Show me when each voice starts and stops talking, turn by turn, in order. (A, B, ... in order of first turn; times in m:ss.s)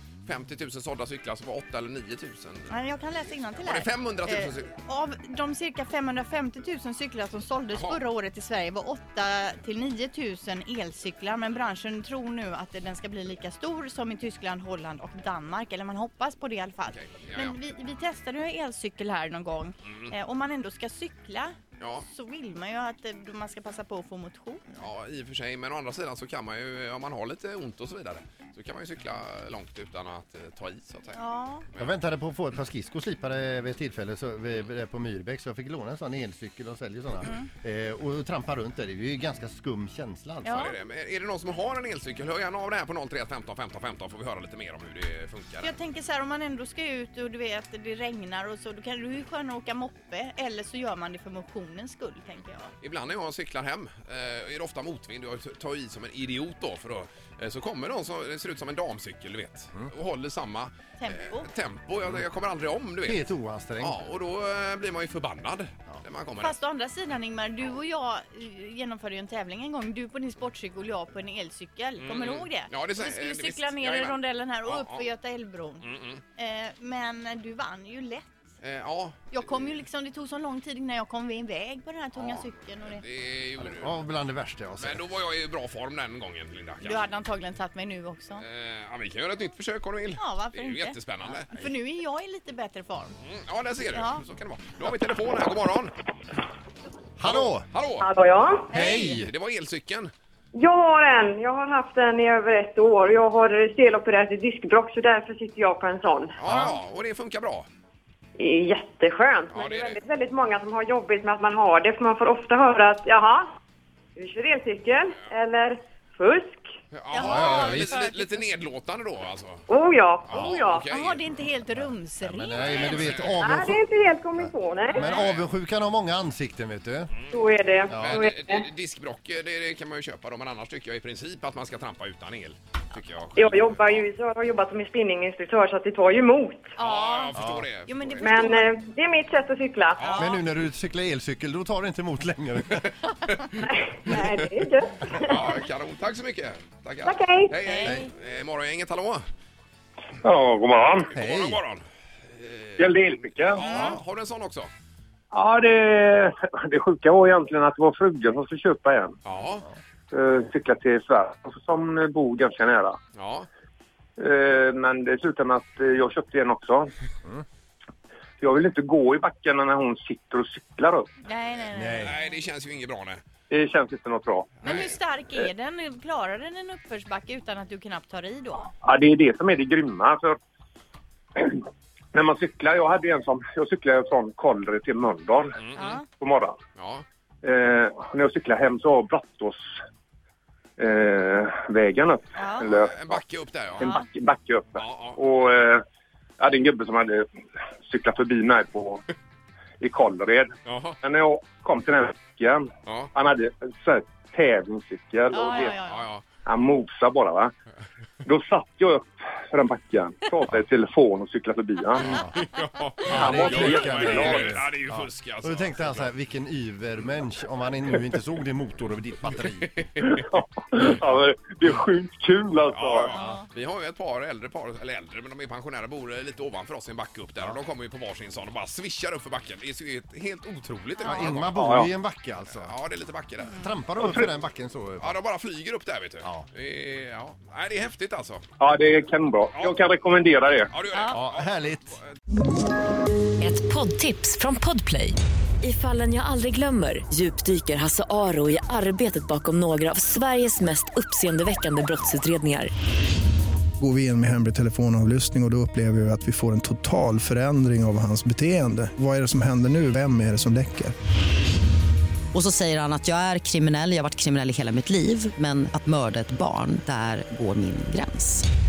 0:00.2-0:02.7 A
0:02.7-0:24.7 B
0:03.5-0:04.7 A
0:07.7-0:08.0 A
0:16.9-0:17.6 A
0:19.9-0:20.1 A
0:21.8-0:22.1 A
0:24.7-0:31.2 A
0:31.1-0:31.6 B
0:31.8-0:40.7 C
0:40.4-0:40.7 B
0:40.5-0:45.8 A
0:45.6-0:52.7 B
0:52.8-1:03.2 A
1:01.0-1:01.5 B
1:03.0-1:04.0 C
1:03.8-1:06.6 A
1:06.4-1:18.4 B
1:12.0-1:15.0 A
1:15.8-1:16.2 A
1:18.6-1:19.3 A
1:19.3-1:23.0 B
1:22.2-1:24.0 A
1:23.7-1:25.0 C
1:24.8-1:27.0 A
1:26.8-1:28.4 B
1:28.4-1:31.7 A
1:30.2-1:33.1 B
1:33.2-1:35.9 A
1:33.9-1:34.2 B
1:37.2-1:37.7 C
1:37.2-1:38.1 A
1:38.0-1:38.7 D
1:38.7-1:40.1 A
1:38.7-1:39.2 B
1:38.7-1:39.3 C
1:40.5-1:46.4 D
1:46.4-1:47.7 A
1:46.4-1:46.8 C
1:48.4-1:53.5 D
1:49.5-1:50.0 A
1:54.2-1:56.7 D
1:56.9-1:59.7 A
1:57.1-1:58.5 B
1:57.2-1:58.0 C
1:59.7-2:00.9 D
2:00.3-2:01.2 A
2:00.9-2:03.3 B
2:01.7-2:03.8 C
2:02.6-2:03.4 A
2:03.4-2:05.1 D
2:04.4-2:07.1 C
2:05.0-2:05.5 A
2:07.2-2:14.1 A
2:07.3-2:08.7 D
2:07.9-2:08.2 C
2:13.4-2:16.7 D
2:16.8-2:18.7 B
2:16.8-2:18.3 A
2:17.3-2:17.7 C
2:18.2-2:20.2 D
2:20.0-2:20.5 A
2:20.1-2:20.4 B
2:20.2-2:23.0 C
2:23.6-2:25.4 D
2:25.1-2:29.2 A
2:27.0-2:27.6 D
2:27.6-2:28.1 B
2:30.2-2:31.1 E
2:31.0-2:32.9 A
2:31.2-2:31.6 C
2:32.8-2:33.6 E
2:33.5-2:34.7 A
2:33.6-2:34.0 B
2:35.3-2:39.2 E
2:39.2-2:39.7 A
2:40.1-2:43.0 E
2:43.2-2:43.5 A
2:44.2-2:46.9 E
2:48.4-2:51.1 E
2:51.2-2:52.4 B
2:51.7-2:52.2 C
2:52.0-2:53.2 A
2:53.5-2:54.7 E
2:54.6-2:58.7 B
2:58.8-3:00.4 E
3:01.4-3:01.6 E
3:02.1-3:06.6 E
3:05.6-3:05.9 A
3:05.7-3:06.0 B
3:06.8-3:07.0 A
3:07.4-3:09.6 E
3:10.8-3:13.2 E
3:12.4-3:12.7 B
3:12.7-3:14.0 A
3:13.8-3:15.8 E
3:14.8-3:15.2 A
3:16.4-3:17.3 E
3:17.8-3:19.0 E
3:19.8-3:25.8 E
3:20.7-3:21.0 A
3:22.9-3:23.1 A
3:25.3-3:26.1 B
3:25.6-3:26.2 A
3:26.4-3:27.5 E
3:28.2-3:32.2 E
3:32.0-3:36.1 A
3:32.1-3:32.4 C
3:33.1-3:40.0 C
3:33.1-3:34.5 E
3:39.8-3:40.2 A
3:40.1-3:43.1 E
3:42.7-3:51.6 A
3:43.1-3:43.5 B
3:51.0-3:52.8 C
3:51.5-3:51.9 E
3:52.5-3:53.7 A
3:53.5-3:55.2 C
3:55.0-3:58.4 A
3:58.6-4:00.7 E
4:00.7-4:02.2 A
4:00.9-4:01.2 B
4:01.1-4:02.0 C
4:03.4-4:12.7 F
4:13.8-4:21.0 G
4:22.4-4:28.4 H